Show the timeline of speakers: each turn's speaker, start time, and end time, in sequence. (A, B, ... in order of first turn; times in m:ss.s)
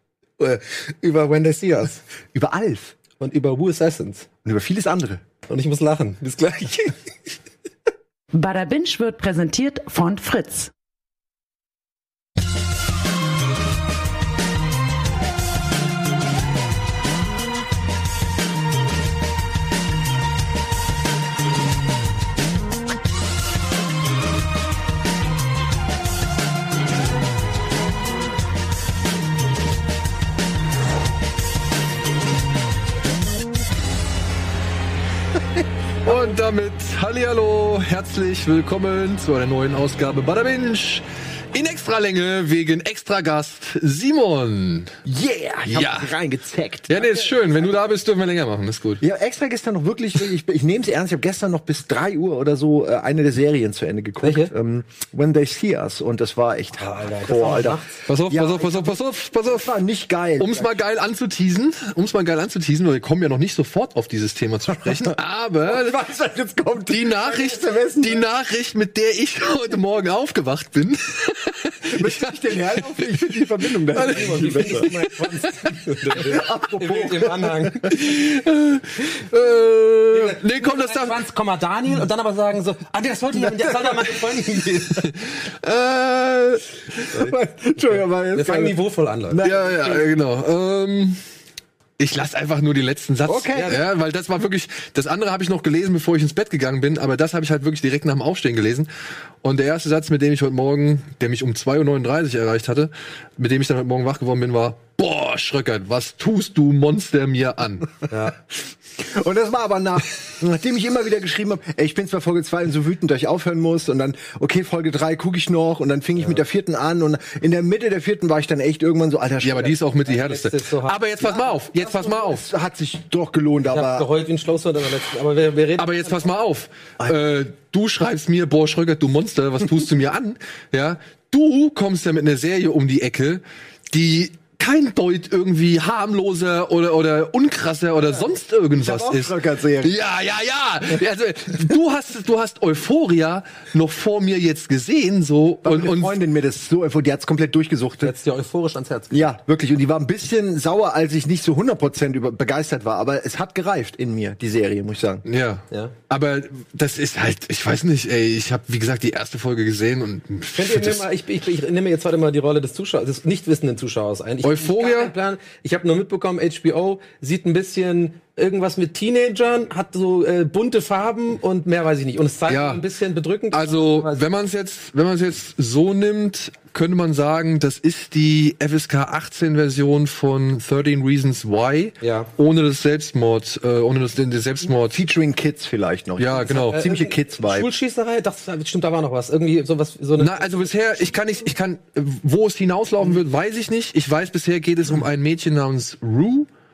0:00.4-0:02.0 A
0:02.3-0:02.9 B
0:03.2-0:04.3 A
0:04.4-0:05.2 B
0:05.5-0:07.0 A
0:08.3-0:10.7 C
0:36.0-0:44.9 D
0:45.0-0:47.6 B
0:45.7-0:46.1 D
0:46.9-0:49.0 D
0:49.0-1:00.8 B
0:54.2-0:54.5 A
0:56.8-0:57.9 A
0:58.0-0:59.7 D
1:00.4-1:06.0 D
1:04.9-1:08.2 B
1:06.9-1:15.0 D
1:11.9-1:17.9 B
1:14.0-1:18.0 A
1:17.8-1:21.2 D
1:20.1-1:25.0 A
1:23.3-1:25.0 B
1:24.9-1:27.0 D
1:27.1-1:28.8 B
1:28.3-1:29.4 A
1:29.3-1:30.1 B
1:29.4-1:31.2 D
1:32.0-1:38.9 D
1:33.3-1:33.8 B
1:33.5-1:33.8 A
1:39.4-1:47.9 D
1:48.1-1:48.4 A
1:49.0-1:59.8 B
1:59.4-2:02.4 D
2:00.1-2:01.0 A
2:01.2-2:04.1 B
2:03.6-2:06.2 A
2:05.8-2:26.2 D
2:18.8-2:20.0 B
2:25.6-2:28.2 B
2:28.0-2:29.3 A
2:29.1-2:35.2 B
2:35.2-2:41.1 D
2:40.5-2:54.2 A
2:44.4-2:45.1 D
2:52.5-2:52.8 D
2:53.5-3:05.0 D
3:02.0-3:02.3 A
3:04.6-3:07.7 B
3:06.2-3:06.8 D
3:06.5-3:10.7 A
3:10.2-3:16.5 D